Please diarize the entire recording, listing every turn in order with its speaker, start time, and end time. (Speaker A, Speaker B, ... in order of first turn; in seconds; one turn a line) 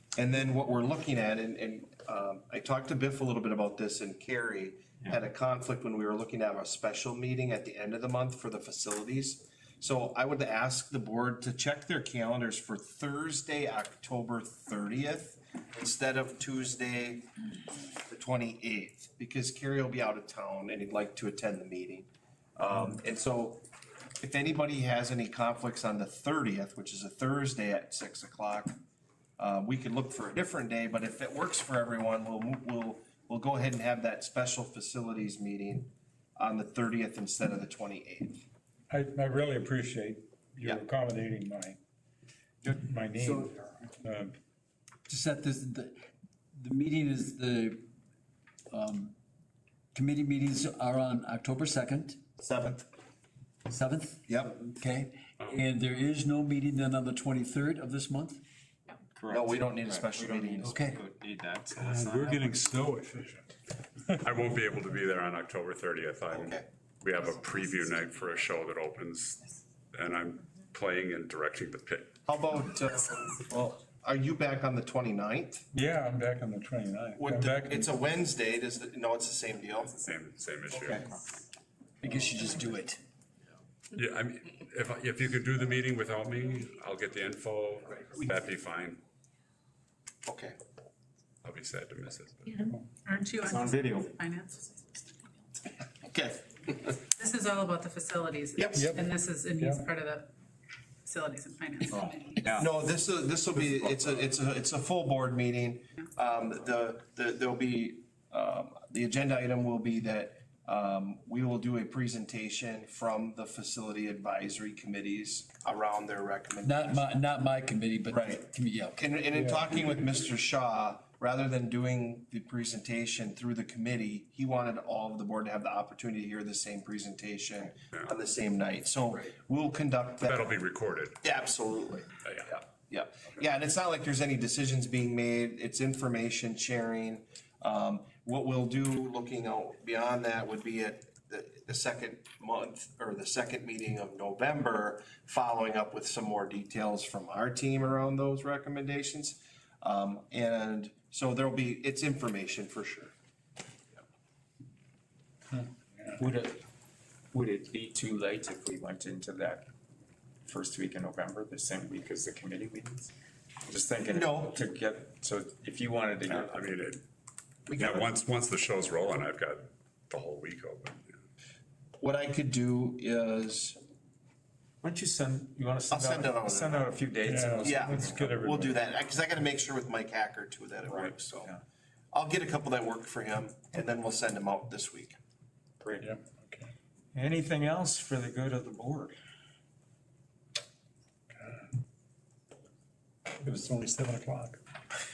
Speaker A: 0.2-17.3
Speaker A: 18.1-23.6
Speaker A: 24.2-28.8
Speaker A: 29.4-38.4
Speaker B: 38.9-41.8
Speaker B: 42.7-44.3
Speaker C: 45.1-46.0
Speaker C: 46.6-47.8
Speaker C: 48.7-49.1
Speaker C: 49.9-52.2
Speaker A: 52.4-52.9
Speaker C: 53.7-58.4
Speaker A: 54.3-54.6
Speaker D: 55.4-55.6
Speaker E: 59.1-62.6
Speaker A: 59.3-60.8
Speaker C: 60.6-61.0
Speaker B: 61.7-63.5
Speaker D: 64.2-72.2
Speaker A: 66.3-66.7
Speaker A: 72.3-75.7
Speaker B: 75.7-77.9
Speaker A: 77.2-80.0
Speaker D: 80.0-81.1
Speaker A: 80.7-81.0
Speaker C: 82.0-83.0
Speaker D: 84.0-89.0
Speaker A: 90.3-90.6
Speaker D: 91.4-92.7
Speaker F: 93.1-94.8
Speaker E: 93.4-94.1
Speaker A: 96.0-97.0
Speaker F: 97.2-100.3
Speaker A: 98.6-98.9
Speaker B: 98.8-99.9
Speaker F: 101.0-102.4
Speaker E: 101.9-102.7
Speaker A: 102.5-117.1
Speaker C: 116.6-119.0
Speaker A: 118.1-130.5
Speaker B: 119.3-119.7
Speaker D: 130.2-131.2
Speaker A: 131.2-153.1
Speaker D: 132.2-132.5
Speaker B: 155.6-156.2
Speaker E: 156.2-156.6
Speaker E: 157.3-159.7
Speaker E: 160.4-163.1
Speaker E: 163.7-166.8
Speaker A: 164.1-164.6
Speaker D: 166.2-167.0
Speaker A: 167.7-168.1
Speaker D: 167.7-171.2
Speaker A: 172.0-173.8
Speaker E: 174.8-178.2
Speaker A: 175.9-176.9
Speaker B: 177.2-178.8
Speaker A: 177.6-181.5
Speaker E: 180.8-181.6
Speaker A: 182.1-185.2
Speaker E: 185.8-186.1
Speaker B: 186.0-186.7
Speaker E: 187.1-189.2
Speaker B: 191.4-191.6
Speaker B: 193.4-194.6